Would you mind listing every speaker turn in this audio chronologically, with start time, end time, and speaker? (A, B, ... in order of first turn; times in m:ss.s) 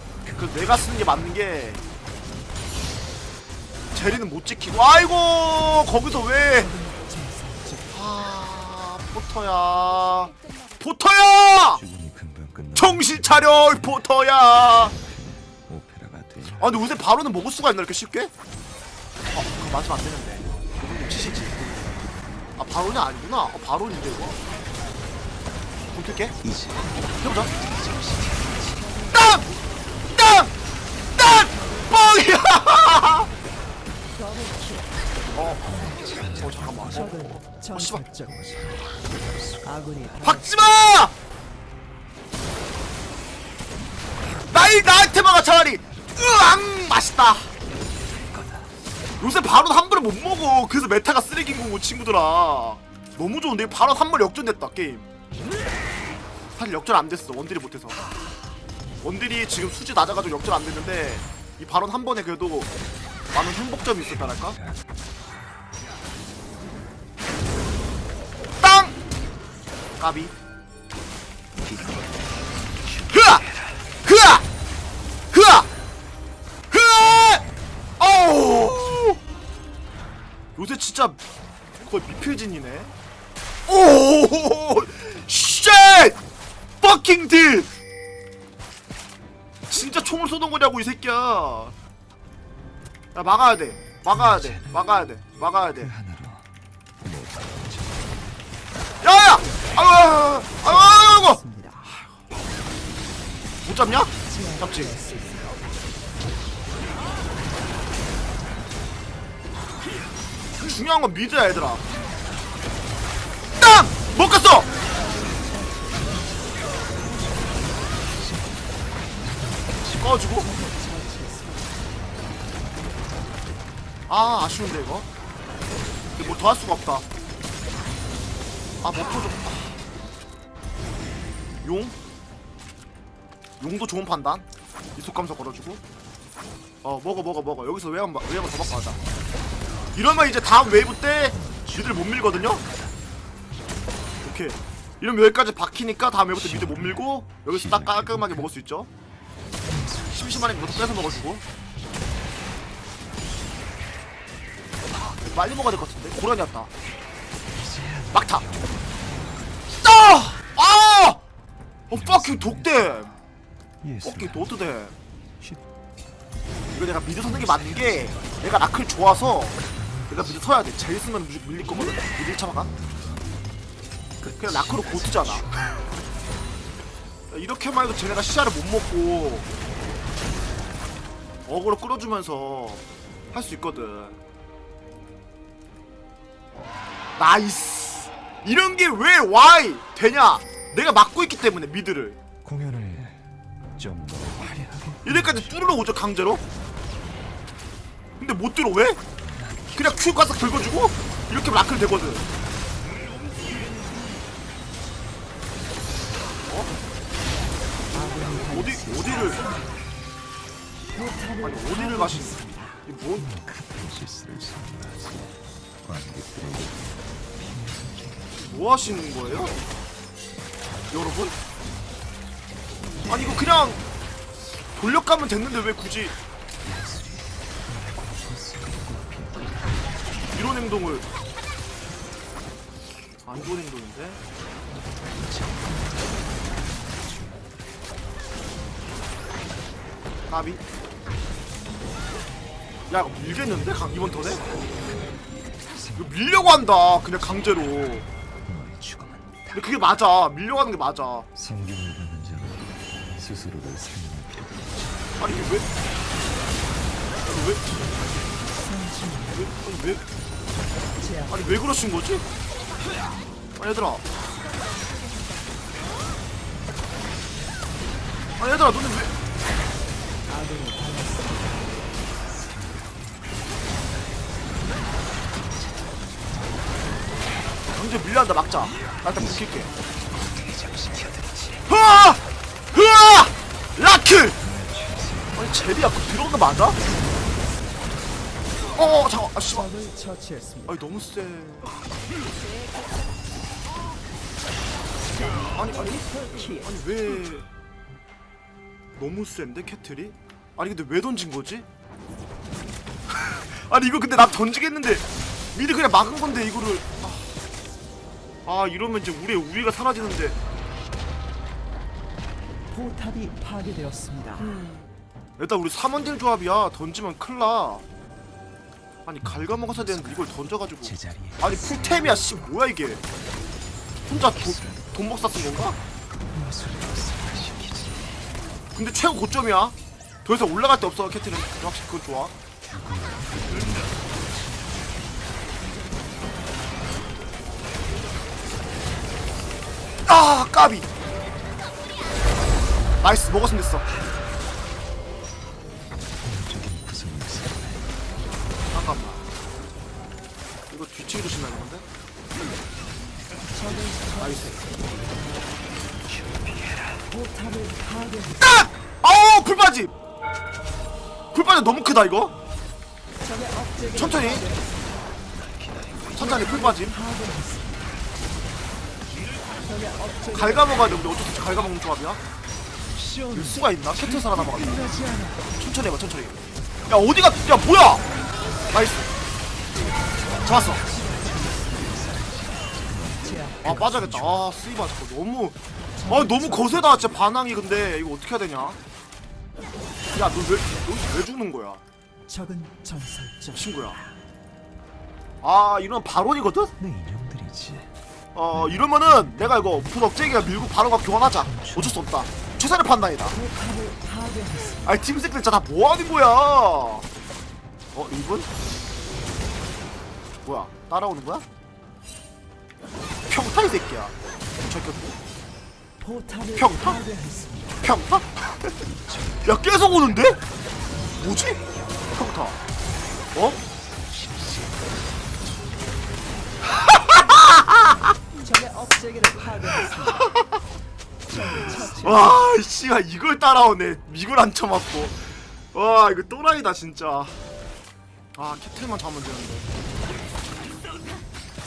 0:00.3-0:01.8 A
0:03.9-0:06.8 A
0:06.8-0:07.7 B
0:07.9-0:11.8 A
0:11.8-0:14.1 C
0:12.8-0:14.9 A
0:14.6-0:16.7 C
0:16.6-0:18.3 A
0:19.3-0:21.8 A
0:22.6-0:24.4 A
0:25.9-0:26.4 A
0:26.5-0:26.9 C
0:27.2-0:27.5 A
0:27.6-0:28.9 C
0:29.1-0:29.5 A
0:30.2-0:30.5 A
0:31.2-0:33.3 A
0:34.3-0:34.8 B
0:35.4-0:38.1 A
0:35.6-0:40.3 C
0:40.2-0:41.1 A
0:44.5-0:47.5 A
0:48.2-0:48.7 C
0:49.2-0:55.1 A
0:56.6-0:58.0 A
0:59.0-1:02.7 A
1:03.3-1:04.6 A
1:08.6-1:08.9 A
1:10.0-1:10.3 A
1:13.1-1:13.5 A
1:14.0-1:14.4 A
1:15.3-1:15.7 A
1:16.7-1:17.4 A
1:18.0-1:19.2 A
1:20.6-1:21.2 A
1:21.8-1:22.9 A
1:23.7-1:26.2 A
1:26.8-1:27.7 A
1:29.7-1:31.7 A
1:33.2-1:35.9 A
1:34.2-1:34.7 C
1:35.8-1:36.4 C
1:37.0-1:38.2 C
1:39.0-1:41.4 A
1:41.4-1:41.7 B
1:43.6-1:45.0 A
1:44.5-1:45.2 B
1:50.6-1:51.9 A
1:53.6-1:54.7 A
1:58.2-1:58.5 C
1:59.8-2:00.3 C
2:00.0-2:00.5 A
2:00.8-2:01.6 B
2:04.1-2:05.1 A
2:06.2-2:07.0 A
2:08.8-2:09.8 A
2:11.6-2:12.0 A
2:13.6-2:14.4 A
2:15.0-2:15.8 A
2:16.8-2:19.0 A
2:20.0-2:22.6 A
2:21.3-2:22.9 C
2:24.2-2:28.9 A
2:26.3-2:28.4 C
2:29.6-2:31.2 C
2:30.1-2:31.4 A
2:35.1-2:36.7 A
2:37.5-2:40.0 C
2:38.1-2:38.4 A
2:39.8-2:41.2 A
2:41.9-2:43.1 A
2:41.9-2:43.0 C
2:43.8-2:44.5 C
2:44.0-2:45.0 A
2:46.7-2:49.6 A
2:47.2-2:48.3 C
2:49.8-2:50.3 C
2:50.1-2:52.7 A
2:52.8-2:53.3 C
2:54.2-2:55.8 C
2:54.3-2:55.6 A
2:57.3-2:59.5 A
3:01.5-3:04.2 A
3:07.2-3:12.2 A
3:12.4-3:13.2 C
3:13.8-3:15.5 C
3:15.0-3:16.4 A
3:18.2-3:19.0 A
3:19.3-3:20.3 C
3:19.7-3:22.3 A
3:28.0-3:28.5 B
3:28.4-3:29.4 A
3:31.4-3:32.5 B
3:31.4-3:33.3 A
3:33.2-3:36.8 C
3:37.4-3:38.3 C
3:38.4-3:39.6 A
3:40.9-3:41.3 A
3:43.1-3:43.8 A
3:44.8-3:46.2 A
3:46.6-3:49.7 C
3:50.3-3:51.1 A
3:53.3-3:54.2 A
3:55.2-3:56.1 C
3:57.1-3:57.4 C
4:00.3-4:00.6 A
4:02.9-4:04.4 A
4:05.8-4:06.1 C
4:06.0-4:08.1 A
4:08.4-4:09.6 C
4:09.5-4:11.3 A
4:11.4-4:14.8 C
4:15.2-4:15.7 A
4:17.3-4:17.7 A
4:18.7-4:19.2 C
4:19.3-4:20.0 A
4:21.3-4:22.2 A
4:23.6-4:24.0 A
4:28.4-4:29.1 A
4:30.5-4:31.1 B
4:32.4-4:32.9 C
4:37.7-4:39.7 A
4:40.2-4:41.6 C
4:41.7-4:42.2 A
4:42.7-4:44.4 A
4:44.4-4:45.6 C
4:45.4-4:46.8 A
4:48.8-4:49.7 A
4:49.7-4:50.6 B
4:50.7-4:51.7 A
4:55.4-4:57.5 A
4:59.0-5:01.7 A
5:03.1-5:05.0 A
5:05.6-5:07.4 A
5:08.5-5:10.4 A
5:12.8-5:14.4 B
5:15.4-5:17.8 A
5:19.1-5:23.0 A
5:19.3-5:20.1 C
5:20.8-5:21.5 C
5:24.1-5:25.8 A
5:26.3-5:28.1 C
5:28.8-5:32.3 A
5:32.6-5:34.1 C
5:40.1-5:40.9 A
5:43.0-5:43.9 A
5:46.2-5:47.9 C
5:48.7-5:49.2 A
5:50.7-5:51.8 A
5:53.7-5:54.1 B
5:54.1-5:54.6 A
5:56.1-5:57.0 C
5:57.2-5:58.2 B
5:58.4-5:59.9 A
6:01.3-6:02.3 A
6:03.6-6:04.0 B
6:03.9-6:04.5 A
6:05.3-6:06.4 C
6:06.1-6:07.0 A
6:07.0-6:07.4 B
6:10.3-6:12.2 A
6:13.0-6:15.4 C
6:13.3-6:14.9 A
6:15.6-6:18.0 A
6:18.7-6:19.1 A
6:20.4-6:20.8 A
6:20.7-6:23.7 C
6:23.6-6:28.8 A
6:30.1-6:31.8 A
6:32.4-6:33.5 B
6:33.5-6:34.0 A
6:35.4-6:36.7 A
6:36.8-6:37.9 C
6:38.4-6:43.4 A
6:38.7-6:39.7 C
6:41.2-6:42.0 C
6:43.5-6:44.8 B
6:44.7-6:47.0 A
6:48.0-6:48.5 A
6:50.4-6:51.4 A
6:53.3-6:55.2 A
6:56.5-6:57.1 A
6:57.0-6:57.6 B
6:57.8-6:58.8 A
6:58.8-6:59.6 C
6:59.4-7:00.4 A
7:01.2-7:02.6 A
7:03.3-7:03.6 A
7:03.8-7:05.0 C
7:06.7-7:08.1 A
7:07.8-7:08.1 C
7:08.5-7:10.2 B
7:09.8-7:10.4 A
7:11.3-7:12.2 C
7:12.0-7:17.4 A
7:18.4-7:19.7 A